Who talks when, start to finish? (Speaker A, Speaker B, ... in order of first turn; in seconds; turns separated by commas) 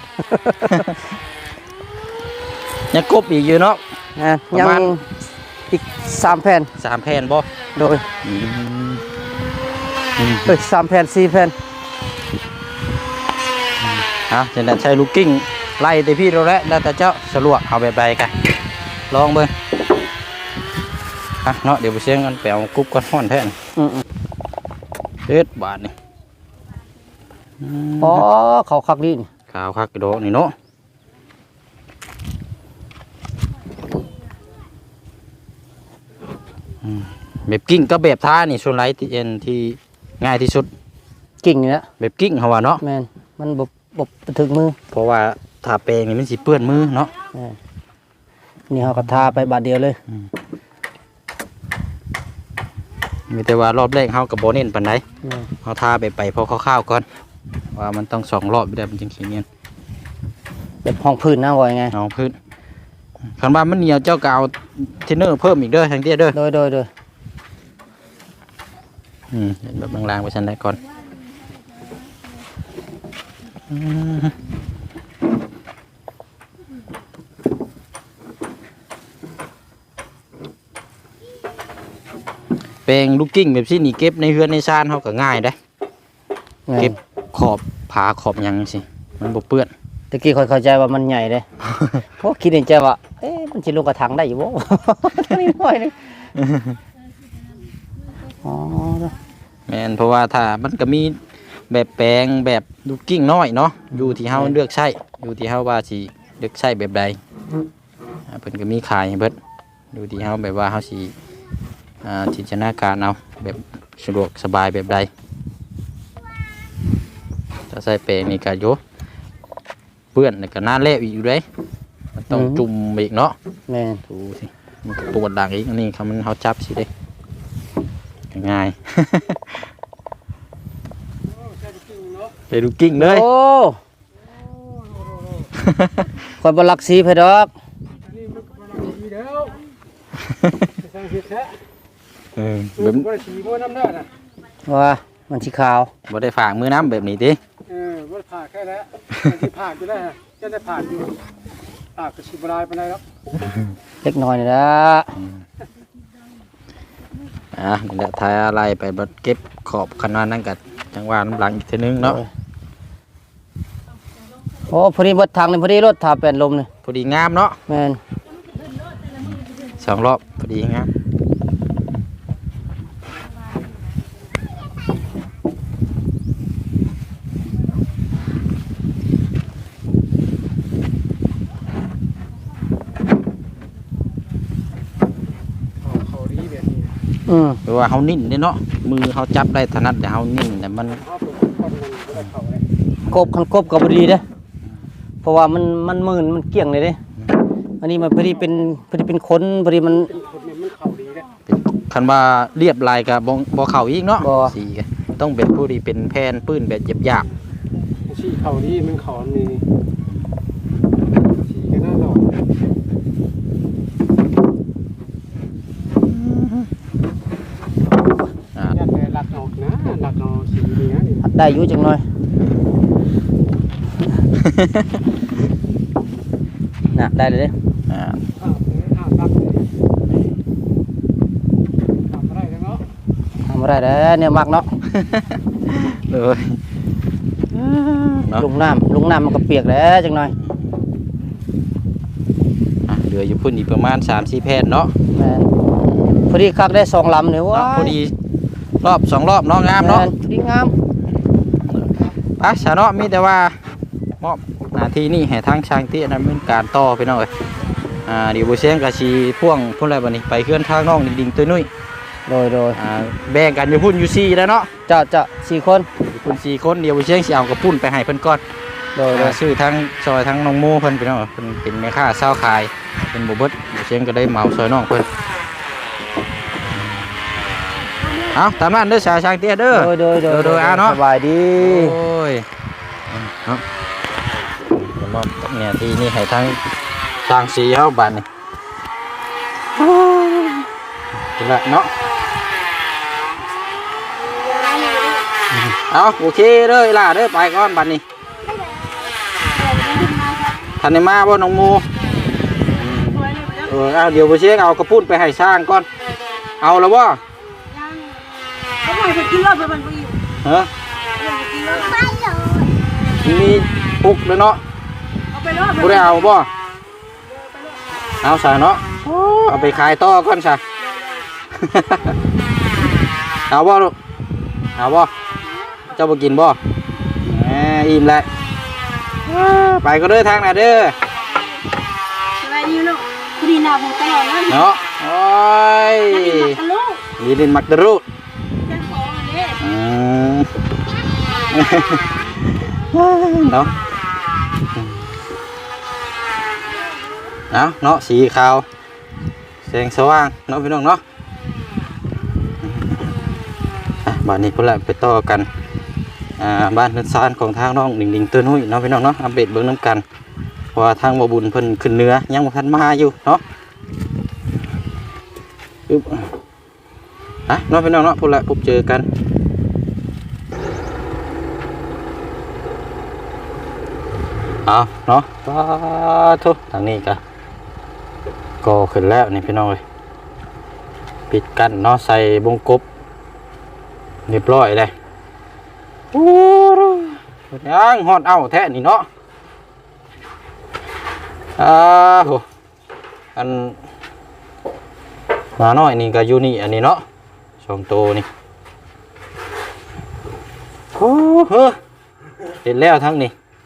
Speaker A: 0.3-0.9, Speaker B: 0.7-0.9, Speaker B: 2.9-3.8, Speaker A: 4.2-5.0, Speaker B: 4.5-4.9, Speaker A: 5.7-6.7, Speaker B: 6.8-7.5, Speaker A: 7.8-8.0, Speaker B: 8.2-9.0, Speaker B: 10.2-10.6, Speaker A: 10.5-11.5, Speaker B: 13.8-18.4, Speaker B: 19.1-19.5, Speaker B: 21.4-23.6, Speaker A: 23.8-24.0, Speaker B: 25.3-25.9, Speaker B: 27.6-28.2, Speaker A: 28.0-29.3, Speaker B: 29.5-30.6, Speaker B: 36.8-40.7, Speaker A: 41.4-41.9, Speaker B: 42.0-42.8, Speaker A: 42.8-44.8, Speaker B: 44.9-47.1, Speaker A: 48.7-50.0, Speaker B: 49.0-49.3, Speaker B: 53.3-55.0, Speaker A: 55.2-55.5, Speaker B: 55.6-57.1, Speaker B: 57.7-59.5, Speaker A: 60.8-62.0, Speaker B: 61.9-62.4, Speaker B: 63.4-66.4, Speaker A: 66.3-66.9, Speaker B: 69.3-70.8, Speaker B: 73.7-74.3, Speaker B: 82.9-85.6, Speaker A: 86.7-87.0, Speaker B: 86.8-89.7, Speaker A: 90.1-91.5, Speaker B: 91.7-92.0, Speaker A: 92.2-96.2, Speaker B: 96.4-96.8, Speaker A: 98.4-99.1, Speaker B: 99.7-107.2, Speaker A: 104.3-104.5, Speaker B: 108.3-109.4, Speaker B: 109.9-111.2, Speaker B: 112.0-115.1, Speaker B: 117.7-118.8, Speaker B: 120.1-121.5, Speaker B: 122.2-123.4, Speaker A: 122.3-122.6, Speaker A: 123.7-124.0, Speaker B: 124.1-126.9, Speaker B: 128.3-129.7, Speaker C: 131.3-132.3, Speaker B: 132.5-133.3, Speaker A: 133.0-133.8, Speaker C: 134.3-135.5, Speaker B: 135.6-136.1, Speaker A: 136.4-137.5, Speaker C: 138.1-139.6, Speaker B: 140.2-140.7, Speaker C: 140.8-141.6, Speaker B: 142.4-143.1, Speaker C: 142.8-144.1, Speaker A: 144.7-145.9, Speaker B: 146.1-147.4, Speaker C: 147.7-151.2, Speaker C: 151.9-153.0, Speaker A: 154.0-155.1, Speaker B: 157.5-162.2, Speaker A: 164.7-166.7, Speaker B: 166.8-167.6, Speaker A: 167.7-168.0, Speaker B: 169.3-170.9, Speaker C: 185.8-186.9, Speaker A: 187.3-187.6, Speaker B: 187.7-191.0, Speaker C: 191.0-192.6, Speaker A: 193.1-194.2, Speaker A: 195.2-197.0, Speaker A: 197.8-200.1, Speaker C: 200.1-201.3, Speaker B: 201.5-207.3, Speaker A: 204.2-204.6, Speaker C: 208.1-209.6, Speaker C: 211.4-212.3, Speaker B: 216.0-216.7, Speaker C: 218.7-221.3, Speaker A: 221.2-222.0, Speaker B: 224.4-225.0, Speaker A: 226.9-227.5, Speaker B: 227.9-228.2, Speaker C: 228.4-229.7, Speaker C: 232.1-232.8, Speaker A: 233.5-234.7, Speaker B: 234.9-236.6, Speaker B: 237.5-238.5, Speaker A: 238.4-240.3, Speaker B: 242.9-244.9, Speaker A: 245.2-245.5, Speaker A: 246.3-247.9, Speaker B: 247.5-248.1, Speaker B: 248.8-250.1, Speaker A: 249.8-250.7, Speaker B: 251.6-253.6, Speaker B: 254.2-257.3, Speaker B: 258.1-261.7, Speaker A: 262.3-262.8, Speaker B: 262.8-264.7, Speaker A: 264.9-265.9, Speaker B: 266.0-268.4, Speaker A: 269.0-269.4, Speaker B: 269.1-275.1, Speaker B: 276.7-277.1, Speaker B: 278.3-281.0, Speaker A: 279.7-282.0, Speaker B: 281.6-282.5, Speaker B: 283.1-283.6, Speaker B: 284.7-286.6, Speaker B: 287.2-288.3, Speaker B: 289.7-290.7, Speaker B: 291.4-291.9, Speaker D: 294.3-295.3, Speaker B: 295.5-298.0, Speaker D: 298.4-298.9, Speaker D: 299.5-300.7, Speaker B: 300.8-301.9, Speaker D: 302.6-303.8, Speaker B: 302.7-305.9, Speaker B: 306.6-307.2, Speaker D: 307.6-308.2, Speaker D: 308.8-310.2, Speaker B: 310.4-310.7, Speaker D: 311.2-312.7, Speaker B: 313.2-314.6, Speaker D: 315.3-316.4, Speaker B: 315.8-316.5, Speaker D: 317.2-318.0, Speaker B: 318.2-320.6, Speaker D: 319.5-319.9, Speaker D: 320.8-321.3, Speaker B: 321.6-322.1, Speaker B: 323.5-323.9, Speaker B: 324.8-325.1, Speaker D: 325.4-326.0, Speaker B: 325.9-326.6, Speaker B: 327.2-328.3, Speaker B: 329.3-331.0, Speaker D: 331.0-331.6, Speaker D: 332.4-334.7, Speaker B: 334.5-336.6, Speaker D: 336.1-337.0, Speaker B: 337.2-338.0, Speaker D: 338.6-339.6, Speaker B: 339.6-340.5, Speaker B: 341.5-343.7, Speaker B: 344.7-345.1, Speaker D: 346.8-347.3, Speaker B: 347.5-348.7, Speaker B: 349.6-351.0, Speaker B: 352.6-353.1, Speaker B: 354.0-355.5, Speaker B: 356.4-360.0, Speaker B: 360.7-363.4, Speaker B: 365.9-366.3, Speaker B: 367.5-369.1, Speaker B: 374.7-377.2, Speaker B: 378.6-379.8, Speaker B: 381.3-382.9, Speaker B: 384.3-384.9, Speaker B: 386.1-389.1, Speaker B: 391.6-392.4, Speaker B: 393.4-393.8, Speaker B: 395.6-397.0, Speaker B: 397.6-398.3, Speaker B: 400.9-401.8, Speaker B: 402.6-403.3